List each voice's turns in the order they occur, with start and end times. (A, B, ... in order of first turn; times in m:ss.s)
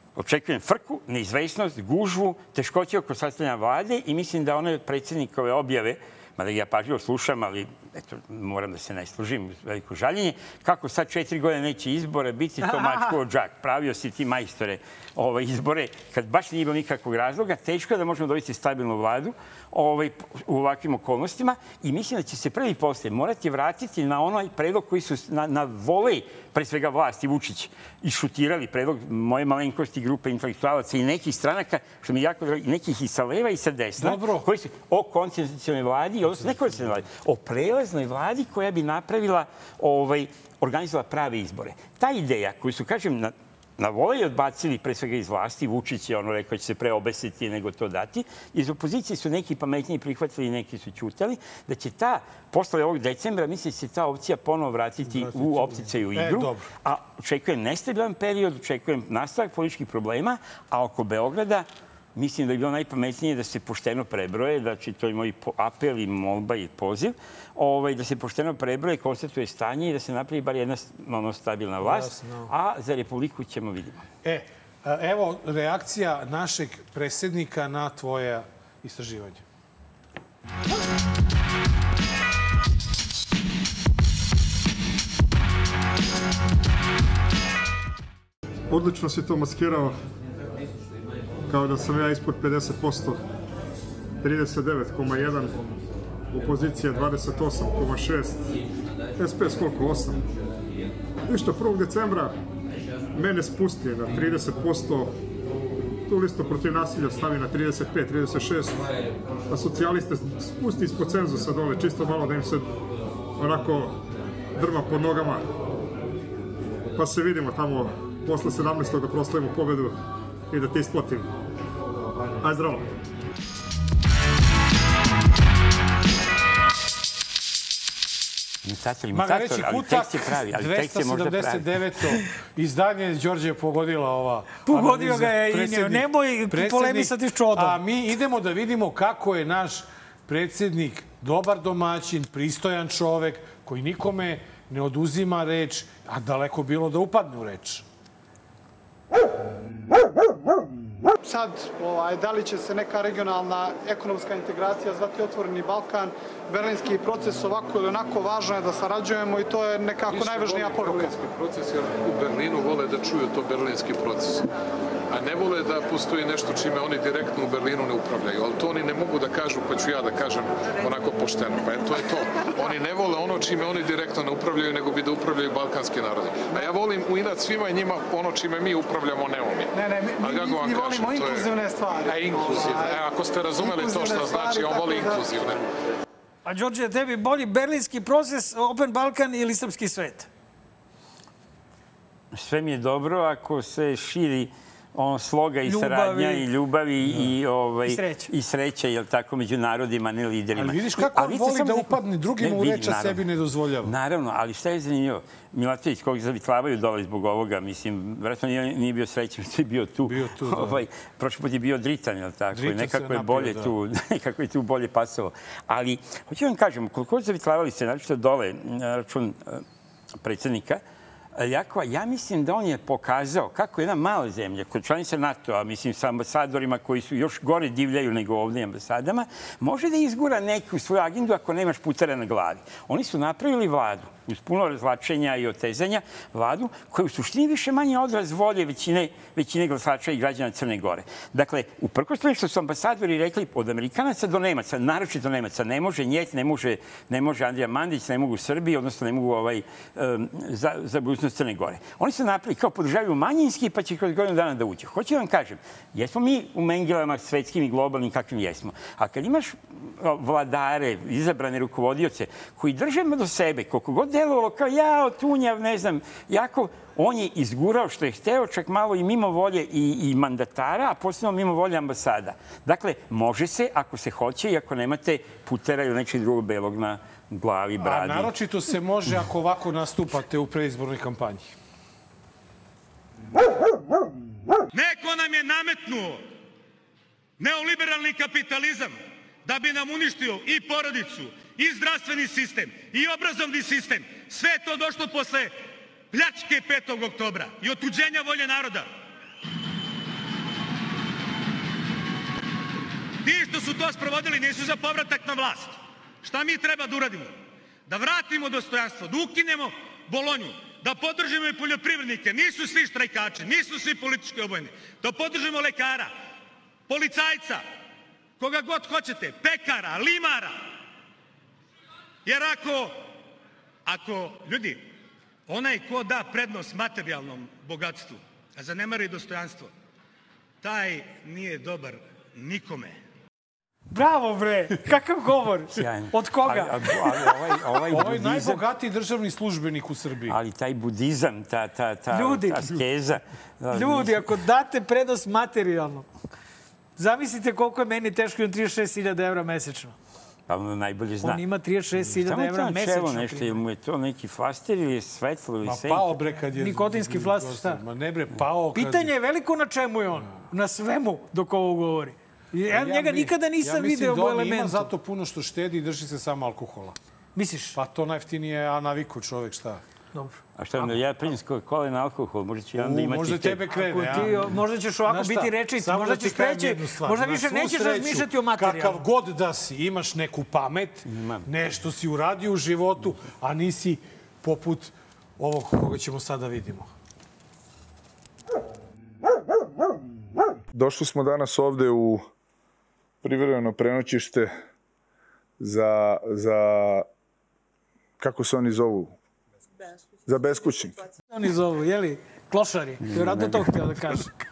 0:00.2-1:14.0 A
0:12.6-0:13.2 B
0:34.0-0:34.5 C
0:55.0-0:56.7 C
1:11.8-1:12.5 C
1:14.2-1:19.4 C
1:28.7-1:30.0 D
1:31.5-1:33.2 D
1:34.2-1:35.6 D
1:36.3-1:38.5 D
1:39.2-1:40.2 D
1:41.3-1:42.3 D
1:43.1-1:45.2 D
1:46.1-1:48.9 D
1:49.5-1:52.7 D
1:53.4-1:54.0 D
1:54.6-1:55.5 D
1:57.0-2:00.0 D
2:00.5-2:01.3 D
2:02.4-2:02.9 D
2:08.6-2:12.0 A
2:09.1-2:27.8 C
2:14.6-2:17.8 B
2:31.2-2:41.1 E
2:40.1-2:44.4 F
2:45.1-3:05.7 F
2:59.7-3:05.3 E
3:06.4-3:10.3 B
3:12.3-3:23.2 A
3:15.6-3:16.4 B
3:17.8-3:18.3 B
3:20.5-3:23.9 C
3:23.8-3:39.6 A
3:30.0-3:30.8 C
3:32.5-3:33.7 C
3:40.2-3:40.8 A
3:41.3-4:38.3 A
4:37.8-4:41.5 C
4:44.7-4:46.2 G
4:47.4-4:55.6 G
4:56.1-4:58.9 G
5:03.2-5:07.3 G
5:07.9-5:16.1 G
5:16.9-5:17.6 G
5:18.4-5:20.6 G
5:22.2-5:23.0 G
5:23.8-5:24.8 G
5:25.5-5:29.7 G
5:30.6-5:33.0 G
5:33.9-5:37.4 B
5:35.7-5:38.6 A
5:37.9-5:40.4 C
5:40.3-5:44.4 A
5:42.1-5:42.8 B
5:43.7-5:46.1 B
5:47.0-5:49.9 B
5:50.5-5:56.1 A
5:51.2-5:53.6 B
5:55.6-5:59.1 C
5:56.6-5:57.8 B
5:58.7-6:04.9 B
6:02.6-6:07.0 C
6:07.3-6:07.8 B
6:07.7-6:09.8 C
6:10.1-6:10.9 B
6:10.6-6:13.6 A
6:12.8-6:26.9 C
6:13.7-6:19.0 B
6:21.1-6:21.4 A
6:30.7-6:32.2 H
6:33.2-6:34.6 H
6:35.6-6:37.0 H
6:38.2-6:39.1 H
6:40.2-6:41.0 H
6:41.3-6:44.3 B
6:43.0-6:43.8 A